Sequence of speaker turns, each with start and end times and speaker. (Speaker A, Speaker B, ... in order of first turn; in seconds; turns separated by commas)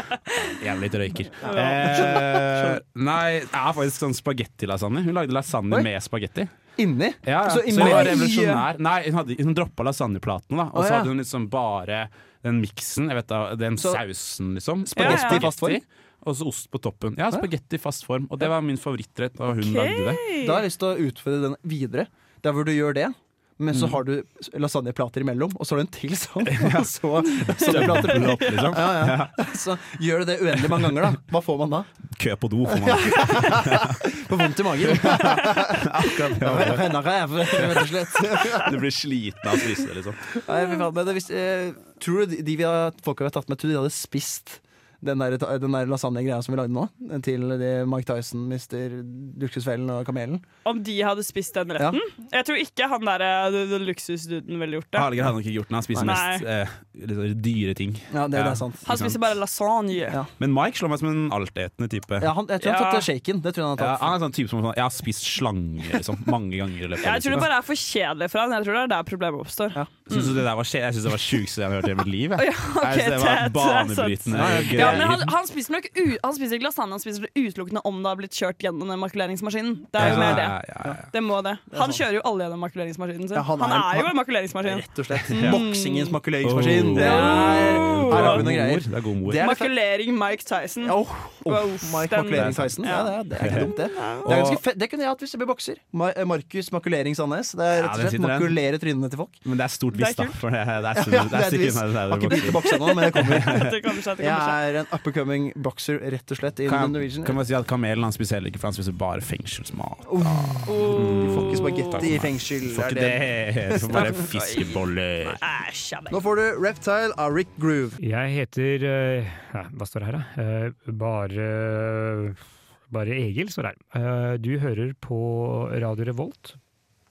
Speaker A: 0.4-6.5, Speaker B: 1.4-2.2, Speaker C: 1.5-2.8, Speaker C: 6.8-8.6, Speaker A: 7.2-20.2, Speaker B: 7.8-8.6, Speaker C: 10.7-11.1, Speaker C: 14.9-15.8, Speaker B: 15.0-15.5, Speaker B: 19.5-20.6, Speaker C: 20.4-31.9, Speaker A: 23.7-24.0, Speaker A: 26.4-29.3, Speaker B: 27.4-28.4, Speaker A: 30.6-30.9, Speaker A: 32.1-34.1, Speaker C: 32.7-38.8, Speaker A: 34.8-40.4, Speaker C: 40.4-50.4, Speaker B: 50.6-55.1, Speaker C: 51.8-52.0, Speaker A: 54.9-59.2, Speaker B: 56.0-56.4, Speaker C: 58.1-58.8, Speaker B: 58.9-60.2, Speaker A: 60.4-62.3, Speaker C: 62.2-64.2, Speaker B: 62.6-63.1, Speaker A: 63.8-67.5, Speaker B: 67.0-70.3, Speaker A: 70.1-75.3, Speaker B: 72.4-80.6, Speaker C: 74.3-75.2, Speaker A: 80.0-81.1, Speaker C: 80.0-81.0, Speaker B: 81.1-86.1, Speaker C: 81.7-82.0, Speaker C: 83.3-89.7, Speaker A: 85.3-85.6, Speaker A: 86.4-89.5, Speaker B: 87.0-88.5, Speaker B: 89.4-94.4, Speaker C: 90.8-99.4, Speaker A: 92.3-93.7, Speaker A: 94.2-94.6, Speaker A: 97.7-98.6, Speaker A: 99.5-103.7, Speaker B: 99.9-100.4, Speaker C: 101.0-107.4, Speaker B: 102.3-104.6, Speaker A: 106.7-115.4, Speaker C: 110.1-114.2, Speaker B: 110.7-112.1, Speaker B: 113.9-114.8, Speaker B: 115.4-116.2, Speaker C: 116.1-118.0, Speaker D: 118.0-126.6